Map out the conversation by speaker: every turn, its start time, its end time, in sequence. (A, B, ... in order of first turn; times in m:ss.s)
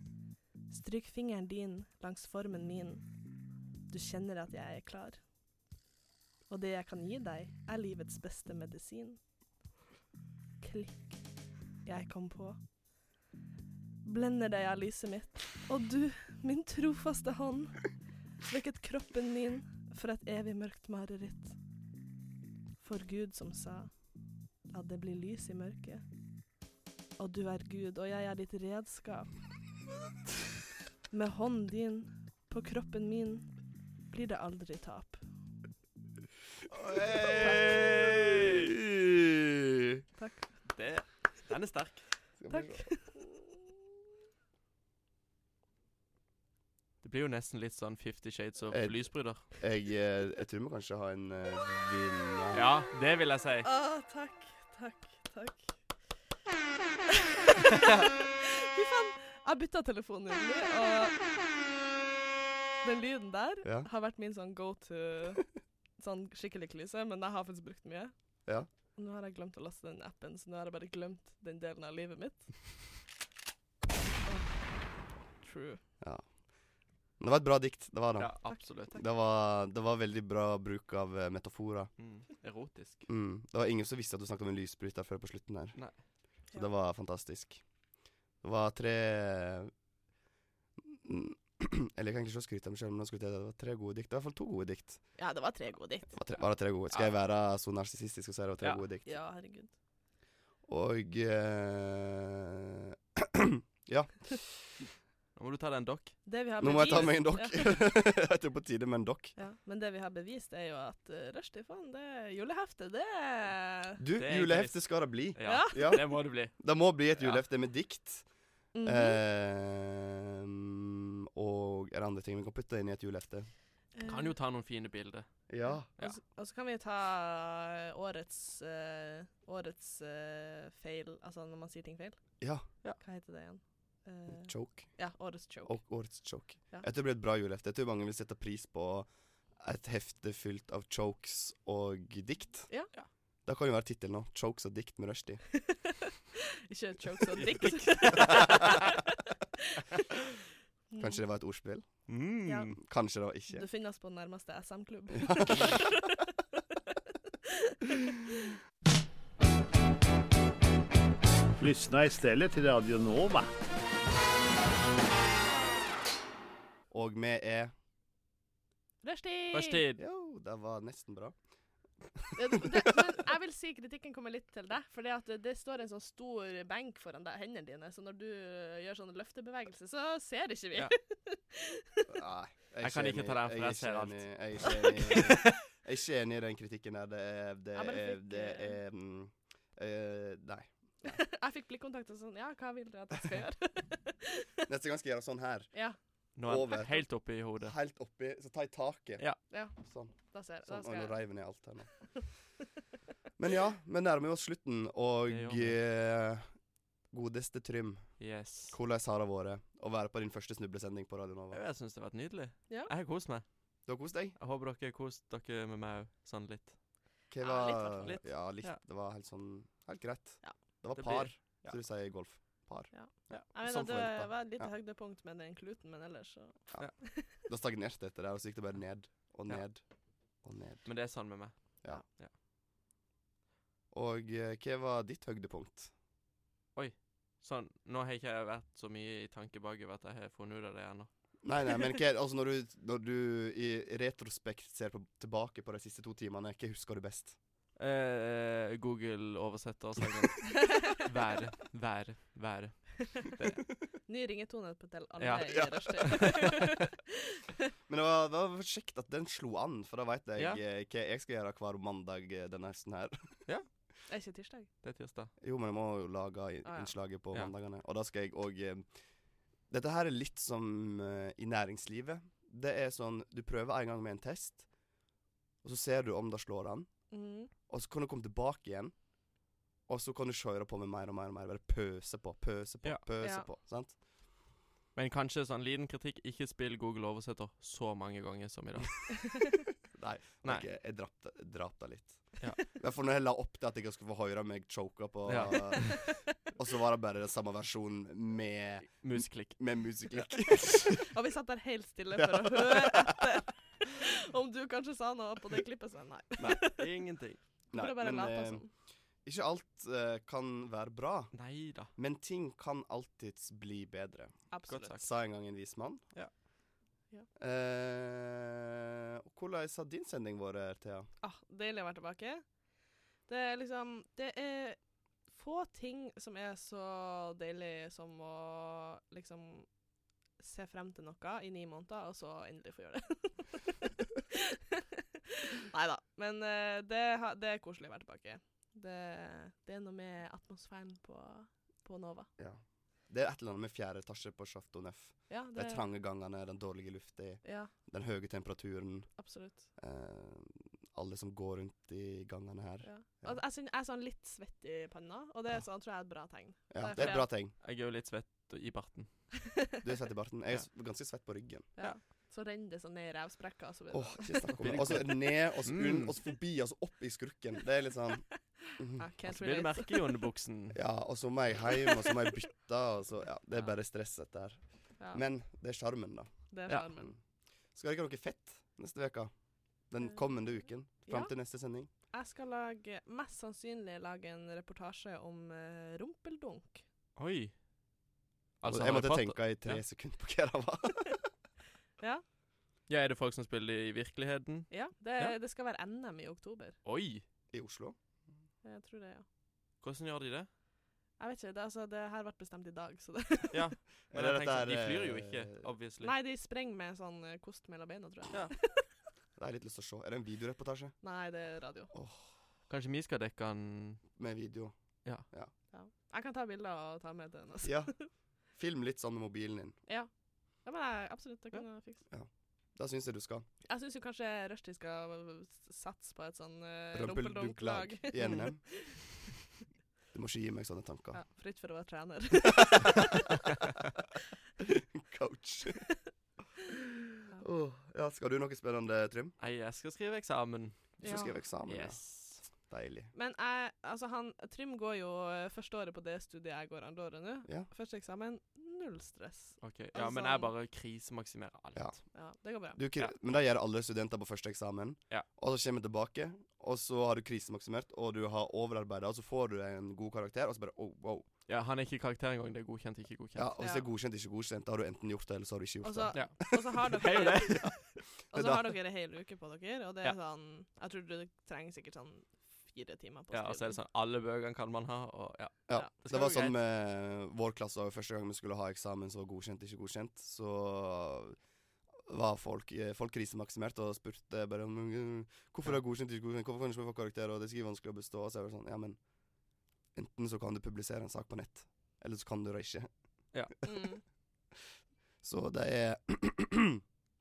0:00.7-0:03.1 A
0:03.9-0:05.2 A
0:06.5-0:09.2 A
0:10.6-0:11.2 A
0:11.8-0:12.6 A
0:14.0-0:21.6 A
0:22.8-0:23.9 A
0:24.7-0:26.0 A
0:27.2-0:29.3 A
0:31.1-0:33.5 A
0:34.1-0:35.2 A
0:36.7-0:38.7 B
0:36.9-0:40.0 C
0:40.2-0:40.5 A
0:40.7-0:42.0 B
0:42.4-0:43.0 C
0:42.5-0:43.2 A
0:47.0-0:49.5 B
0:48.7-0:52.7 C
0:52.5-0:53.7 B
0:53.6-0:55.7 A
0:57.5-1:01.2 A
1:02.8-1:08.1 A
1:03.6-1:03.9 C
1:09.0-1:12.5 A
1:14.2-1:14.7 A
1:15.4-1:15.8 A
1:16.0-1:16.3 C
1:17.2-1:21.9 C
1:18.2-1:19.0 B
1:18.5-1:19.0 A
1:22.0-1:23.1 B
1:23.1-1:25.8 C
1:26.5-1:27.6 C
1:28.4-1:29.7 C
1:30.9-1:35.0 C
1:35.2-1:36.1 A
1:36.1-1:39.1 C
1:39.0-1:39.7 A
1:40.7-1:44.8 C
1:45.4-1:46.2 B
1:46.2-1:47.8 A
1:46.6-1:49.3 C
1:49.4-1:54.0 A
1:54.0-1:58.2 C
1:54.2-1:56.6 B
1:55.4-1:56.0 A
1:57.2-1:57.4 B
1:58.7-1:59.2 A
1:58.8-2:03.5 C
2:03.9-2:04.3 A
2:04.0-2:05.3 B
2:05.5-2:05.9 C
2:05.6-2:12.2 A
2:12.4-2:12.6 C
2:13.0-2:15.8 A
2:14.3-2:15.0 C
2:15.6-2:19.1 C
2:19.6-2:22.7 C
2:23.4-2:25.4 C
2:26.7-2:29.0 A
2:27.3-2:28.9 B
2:30.9-2:31.2 A
2:31.0-2:31.9 C
2:32.1-2:32.8 B
2:32.4-2:32.7 A
2:32.8-2:33.6 C
2:33.5-2:36.2 A
2:35.2-2:35.6 C
2:37.4-2:38.3 A
2:41.6-2:43.5 D
2:46.9-2:47.7 C
2:49.0-2:49.8 A
2:49.5-2:50.0 B
2:50.0-2:51.3 C
2:52.2-2:52.8 C
2:52.4-3:02.1 A
3:02.1-3:11.2 C
3:02.8-3:05.5 B
3:07.7-3:08.8 A
3:11.0-3:14.4 A
3:14.7-3:15.7 C
3:16.4-3:17.7 B
3:16.4-3:17.0 C
3:17.6-3:19.2 C
3:19.5-3:19.7 A
3:19.8-3:20.1 C
3:20.3-3:21.2 A
3:20.6-3:22.0 C
3:23.4-3:26.5 C
3:25.3-3:25.8 B
3:27.1-3:31.6 C
3:28.2-3:28.8 B
3:31.5-3:33.4 B
3:33.9-3:34.4 C
3:34.4-3:36.7 B
3:37.3-3:44.7 C
3:37.4-3:38.2 A
3:38.0-3:38.8 B
3:41.0-3:41.8 B
3:42.9-3:47.2 A
3:46.7-3:49.8 C
3:50.4-3:50.8 C
3:50.8-3:52.3 B
3:53.9-3:55.9 C
3:56.7-4:01.1 B
4:01.4-4:07.4 C
4:07.8-4:13.6 B
4:14.1-4:17.1 A
4:15.2-4:16.4 B
4:15.5-4:16.2 C
4:17.9-4:23.4 C
4:24.1-4:24.7 A
4:24.8-4:25.3 B
4:25.4-4:28.8 C
4:26.6-4:26.9 A
4:29.7-4:34.6 C
4:35.6-4:36.9 C
4:37.1-4:37.5 A
4:37.7-4:39.0 C
4:39.9-4:43.9 C
4:43.2-4:43.5 A
4:44.9-4:49.3 B
4:49.9-5:01.1 C
4:55.3-4:56.0 B
4:58.9-5:00.2 B
5:01.1-5:06.9 A
5:02.2-5:03.2 C
5:06.4-5:07.4 B
5:07.7-5:08.6 C
5:07.7-5:08.7 A
5:09.2-5:11.3 C
5:11.3-5:11.9 B
5:11.9-5:16.0 C
5:14.5-5:15.0 A
5:14.6-5:15.0 B
5:17.4-5:18.8 C
5:19.3-5:21.1 C
5:21.2-5:22.4 A
5:23.2-5:24.8 A
5:25.3-5:29.7 A
5:30.4-5:42.3 A
5:42.4-5:49.2 C
5:45.3-5:45.8 A
5:47.4-5:47.7 A
5:49.2-5:49.6 A
5:49.8-5:53.4 C
5:52.8-5:57.2 A
5:56.7-5:57.5 C
5:57.0-5:59.1 B
5:59.8-6:01.7 C
6:01.8-6:04.5 A
6:03.9-6:09.1 C
6:04.6-6:06.1 B
6:09.0-6:10.1 A
6:09.2-6:10.8 B
6:10.7-6:16.3 C
6:16.5-6:17.1 A
6:17.7-6:19.3 C
6:19.9-6:21.9 C
6:21.1-6:21.3 A
6:22.1-6:26.8 A
6:27.2-6:27.5 B
6:28.6-6:29.8 B
6:28.6-6:31.2 C
6:32.0-6:32.2 A
6:32.9-6:35.4 B
6:34.7-6:36.8 A
6:36.8-6:37.2 B
6:37.5-6:38.0 C
6:38.6-6:39.2 A
6:39.8-6:40.5 B
6:41.2-6:43.6 A
6:43.5-6:46.1 B
6:44.1-6:45.6 C
6:46.0-6:48.8 A
6:49.4-6:50.9 C
6:51.0-6:51.9 A
6:51.9-6:52.3 C
6:52.7-6:54.0 B
6:54.2-6:54.7 C
6:55.7-6:58.0 A
6:57.6-6:57.9 C
6:58.5-6:59.8 C
7:00.6-7:02.0 A
7:02.1-7:03.4 C
7:03.6-7:09.0 A
7:06.9-7:08.6 C
7:08.2-7:08.4 B
7:10.1-7:11.2 C
7:11.1-7:13.2 A
7:12.6-7:13.5 C
7:14.6-7:15.8 C
7:17.3-7:19.3 C
7:19.4-7:21.0 B
7:21.0-7:23.1 C
7:21.0-7:21.3 A
7:21.6-7:22.4 B
7:23.1-7:30.5 A
7:29.6-7:32.0 B
7:31.7-7:32.0 C
7:32.1-7:32.8 A
7:32.7-7:41.2 C
7:41.5-7:43.5 B
7:43.4-7:48.7 C
7:43.6-7:43.8 A
7:45.8-7:47.7 A
7:46.1-7:47.7 B
7:48.3-7:53.8 A
7:53.3-7:56.6 B
7:55.7-8:01.4 C
8:02.1-8:09.0 C
8:09.9-8:12.9 C
8:13.6-8:14.0 A
8:15.2-8:16.8 C